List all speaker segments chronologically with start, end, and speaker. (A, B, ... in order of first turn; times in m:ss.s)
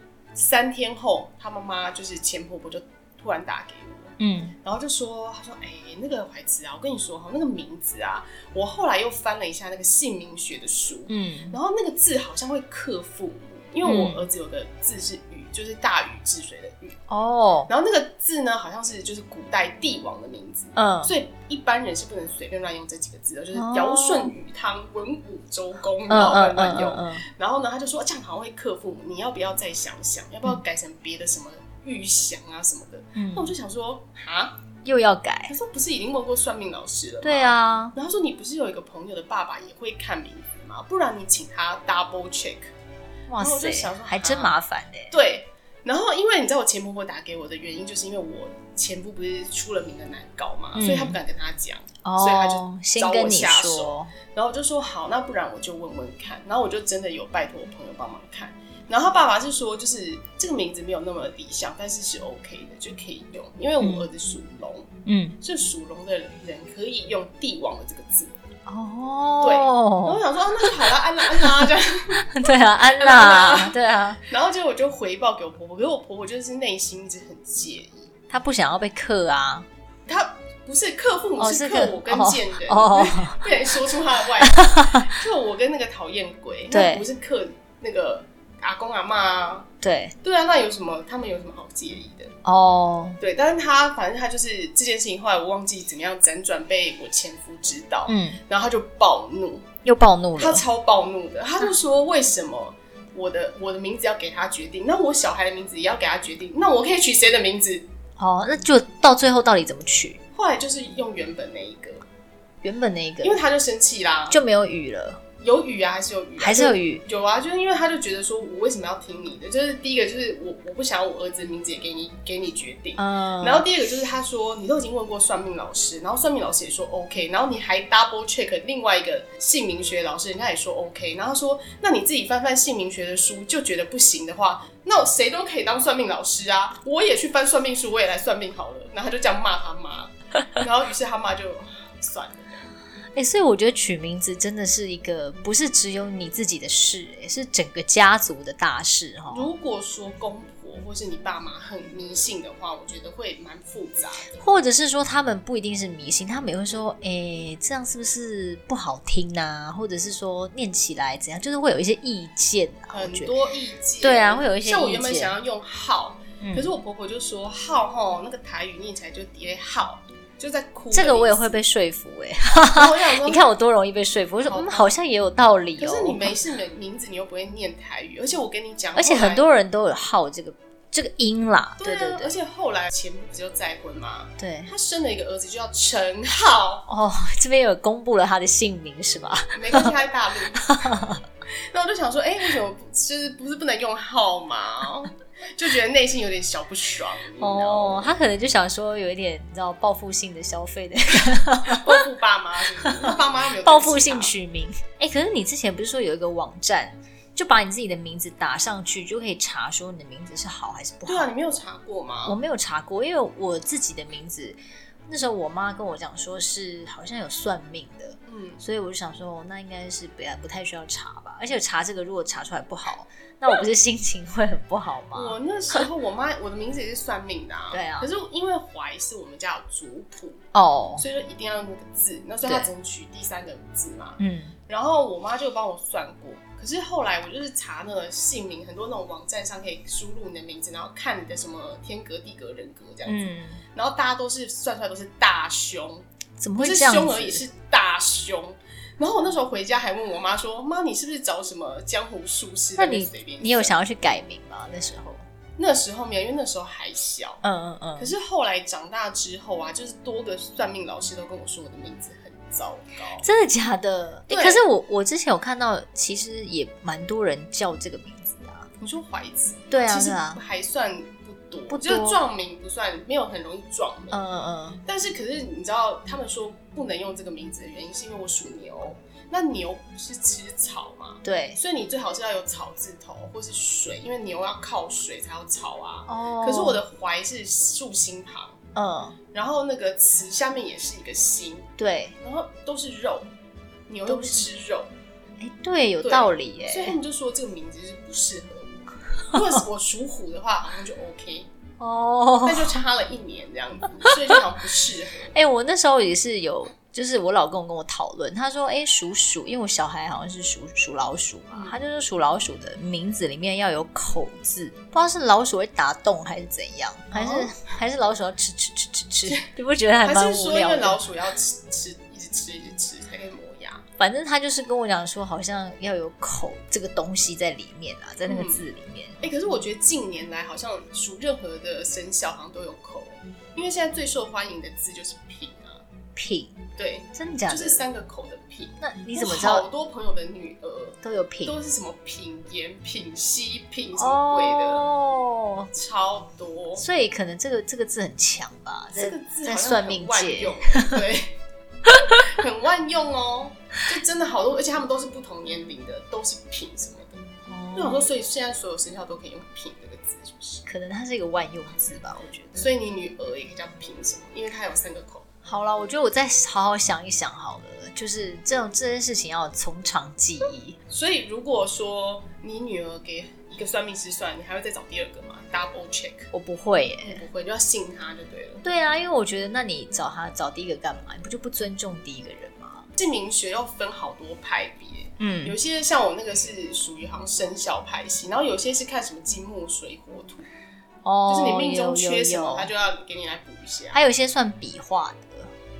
0:00.3-0:17.0 A
0:04.2-0:04.5 B
0:11.1-0:11.6 B
0:13.8-0:14.3 B
0:17.1-0:17.7 B
0:17.7-0:34.6 A
0:20.7-0:21.1 B
0:23.5-0:24.3 B
0:26.1-0:27.2 B
0:33.1-0:33.5 B
0:34.8-0:35.5 B
0:35.5-0:42.7 A
0:37.2-0:37.9 B
0:43.3-0:45.1 B
0:43.4-0:44.5 A
0:45.1-1:08.3 A
0:50.7-0:51.2 B
0:52.0-0:54.1 B
1:03.8-1:04.1 B
1:05.0-1:05.3 B
1:08.6-1:10.8 B
1:09.4-1:12.2 A
1:11.4-1:14.2 B
1:12.9-1:18.1 A
1:18.3-1:19.7 B
1:20.0-1:29.7 A
1:21.4-1:23.4 B
1:24.4-1:25.1 B
1:26.7-1:27.0 B
1:29.8-1:30.1 B
1:30.2-1:32.3 A
1:32.4-1:33.2 B
1:33.2-1:39.7 A
1:38.1-1:38.4 B
1:39.8-1:40.6 B
1:40.4-1:47.8 A
1:48.2-1:50.2 B
1:50.3-1:52.0 A
1:52.6-1:53.4 B
1:53.2-1:54.4 A
1:54.3-1:55.2 B
1:55.4-2:22.7 A
1:56.4-1:57.0 B
2:03.0-2:03.6 B
2:23.1-2:29.5 B
2:29.3-2:34.4 A
2:34.4-2:43.3 B
2:42.9-2:51.6 A
2:44.0-2:45.3 B
2:46.4-2:46.7 B
2:50.9-2:56.4 B
2:52.7-2:53.5 A
2:54.4-2:54.9 A
2:55.8-2:59.5 A
2:59.0-3:02.3 B
3:01.8-3:06.9 A
3:04.4-3:04.7 B
3:06.9-3:09.9 B
3:09.5-3:10.7 A
3:10.6-3:11.2 B
3:11.7-3:18.1 A
3:17.4-3:22.0 B
3:21.7-3:24.3 A
3:22.8-3:31.3 B
3:31.1-3:32.4 A
3:32.2-3:45.4 B
3:38.3-3:38.6 A
3:45.1-3:50.4 A
3:47.7-3:48.1 B
3:50.5-3:51.0 B
3:51.0-4:06.0 A
3:54.2-3:54.6 B
4:03.0-4:03.6 B
4:06.4-4:07.4 B
4:06.6-4:13.8 A
4:12.8-4:15.2 B
4:15.6-4:17.4 A
4:17.4-4:18.1 B
4:18.0-4:23.2 A
4:23.2-4:28.7 B
4:24.3-4:24.6 A
4:28.8-4:34.2 A
4:29.7-4:30.4 B
4:31.7-4:32.2 B
4:34.1-4:34.8 B
4:34.8-4:48.6 A
4:41.2-4:41.6 B
4:46.1-4:46.8 B
4:48.7-4:49.2 B
4:49.3-4:53.3 A
4:51.8-4:52.2 B
4:53.9-4:54.9 A
4:54.0-4:54.5 B
4:55.4-4:57.0 B
4:56.0-5:01.5 A
5:01.8-5:02.8 B
5:02.4-5:05.3 A
5:05.3-5:21.0 B
5:11.5-5:11.8 A
5:17.1-5:17.5 A
5:20.0-5:23.8 A
5:24.0-5:29.3 B
5:28.2-5:28.6 A
5:29.2-5:35.8 A
5:36.2-5:36.6 B
5:36.8-5:44.9 A
5:37.1-5:37.8 B
5:38.8-5:39.6 B
5:41.0-5:41.5 B
5:44.0-5:45.7 B
5:45.7-5:46.8 A
5:46.8-5:51.0 B
5:48.9-5:51.4 A
5:51.8-5:52.2 B
5:52.2-5:57.2 A
5:57.5-5:58.1 B
5:57.8-6:00.6 A
6:00.6-6:02.7 B
6:02.6-6:05.3 A
6:05.4-6:10.8 B
6:10.9-6:16.3 A
6:16.3-6:17.2 B
6:17.0-6:18.6 A
6:18.6-6:22.9 B
6:23.0-6:30.5 A
6:25.2-6:25.6 B
6:31.0-6:32.7 B
6:31.3-6:34.0 A
6:33.9-6:35.5 B